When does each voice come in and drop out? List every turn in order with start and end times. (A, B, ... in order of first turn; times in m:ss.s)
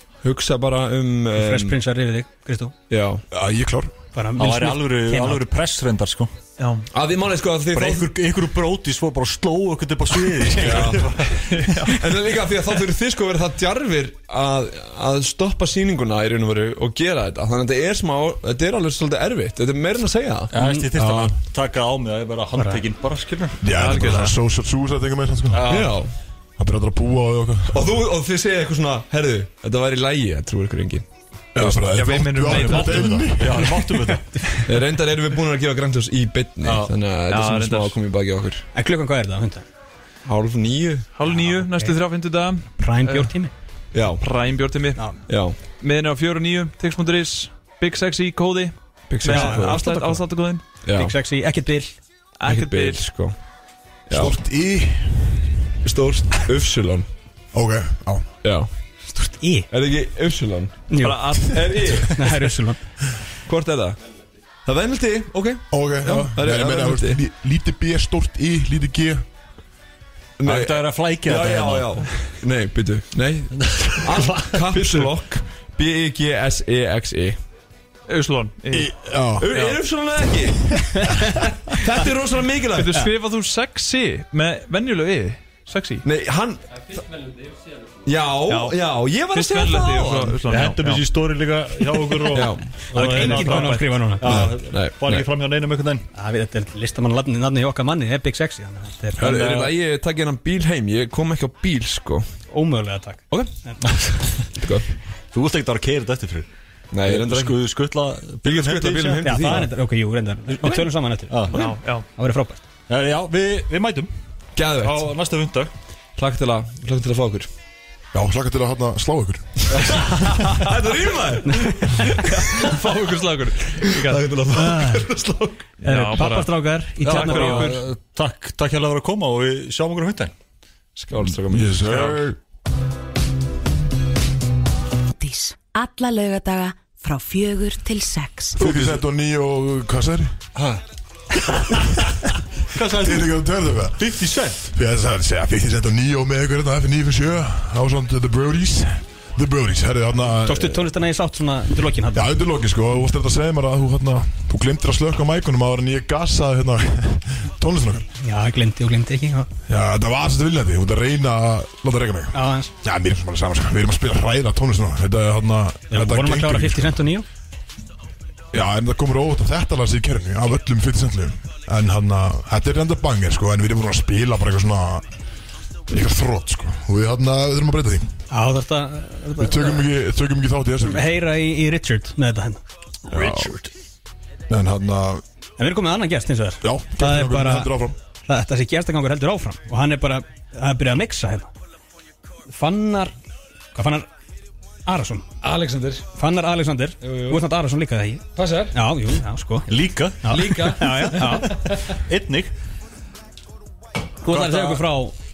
0:00.2-0:01.8 A
0:01.3-0:02.7 B
0:02.9-0:03.2 A
0:03.3-0:03.9 C
0:04.1-0:05.4 B
0:04.4-0:06.3 D
0:06.6-0:06.9 E
0:06.9-0:08.1 A
0:07.7-0:11.9 D
0:10.5-0:20.5 A
0:11.6-0:12.1 E
0:20.5-0:23.6 D
0:20.5-0:20.8 B
0:21.0-0:21.3 C
0:23.6-0:25.8 C
0:23.7-0:24.3 E
0:25.5-0:25.9 D
0:25.7-0:26.1 A
0:26.6-0:27.9 C
0:27.7-0:31.9 A
0:31.5-0:33.8 C
0:31.8-0:33.3 E
0:32.6-0:34.3 D
0:34.6-0:38.6 A
0:36.6-0:36.9 D
0:37.3-0:38.0 E
0:38.7-0:39.6 B
0:40.2-0:41.1 A
0:41.1-0:43.3 E
0:41.3-0:41.9 B
0:42.8-0:43.5 B
0:43.9-0:44.3 A
0:44.2-0:45.2 E
0:45.2-0:45.6 A
0:45.8-0:50.6 E
0:49.1-0:50.1 A
0:49.2-0:50.2 B
0:50.8-0:51.1 A
0:50.9-0:51.9 B
0:52.4-0:53.1 E
0:52.4-0:53.4 A
0:54.1-0:54.4 A
0:54.1-0:55.4 C
0:55.8-0:57.1 A
0:57.5-0:58.3 C
0:58.4-0:58.7 A
0:59.1-0:59.7 B
0:59.7-1:02.5 A
1:00.9-1:02.8 B
1:01.0-1:02.1 E
1:03.4-1:04.0 A
1:04.6-1:07.2 A
1:05.7-1:09.2 C
1:10.4-1:17.4 A
1:10.4-1:12.2 D
1:13.5-1:15.1 D
1:18.1-1:19.0 E
1:18.9-1:19.5 C
1:19.0-1:23.1 A
1:19.5-1:19.8 E
1:22.7-1:26.0 E
1:26.0-1:26.9 A
1:28.0-1:30.4 A
1:28.4-1:31.1 E
1:30.5-1:36.0 D
1:32.3-1:32.8 A
1:32.9-1:34.2 B
1:32.9-1:34.1 E
1:34.2-1:35.2 A
1:36.1-1:39.3 B
1:39.2-1:42.3 A
1:39.2-1:39.7 D
1:42.5-1:43.9 B
1:43.8-1:44.2 D
1:44.6-1:44.9 A
1:45.3-1:46.5 D
1:46.9-1:47.6 A
1:47.0-1:49.7 D
1:48.4-1:49.7 A
1:49.2-1:52.6 B
1:51.3-1:51.6 D
1:51.5-1:52.0 E
1:52.9-1:54.1 D
1:54.6-1:55.1 A
1:54.8-1:55.7 D
1:56.2-1:57.5 A
1:58.1-1:59.8 C
1:59.9-2:02.9 A
2:01.4-2:01.9 B
2:02.0-2:04.4 E
2:03.7-2:05.7 A
2:04.5-2:05.1 B
2:05.8-2:07.8 E
2:05.8-2:07.8 B
2:07.0-2:10.3 D
2:11.0-2:11.8 A
2:11.5-2:12.4 C
2:15.1-2:18.6 F
2:18.6-2:20.3 C
2:20.6-2:20.8 D
2:22.7-2:23.4 D
2:22.9-2:24.0 C
2:24.0-2:24.6 D
2:24.6-2:30.9 C
2:30.4-2:32.3 B
2:32.1-2:38.1 C
2:38.2-2:39.5 B
2:39.7-2:47.0 C
2:42.3-2:42.7 B
2:45.9-2:47.2 B
2:48.5-2:55.0 C
2:55.9-2:58.1 C
2:58.3-2:59.8 B
2:59.4-3:01.1 C
3:00.8-3:02.6 B
3:03.1-3:03.5 C
3:04.5-3:05.2 C
3:05.6-3:11.5 B
3:06.6-3:08.0 C
3:12.5-3:13.1 B
3:13.7-3:14.1 B
3:14.8-3:15.3 B
3:15.4-3:16.0 G
3:16.1-3:21.6 B
3:17.0-3:17.4 G
3:18.4-3:18.8 G
3:19.7-3:22.5 D
3:20.2-3:22.0 G
3:24.2-3:25.1 B
3:24.3-3:24.8 D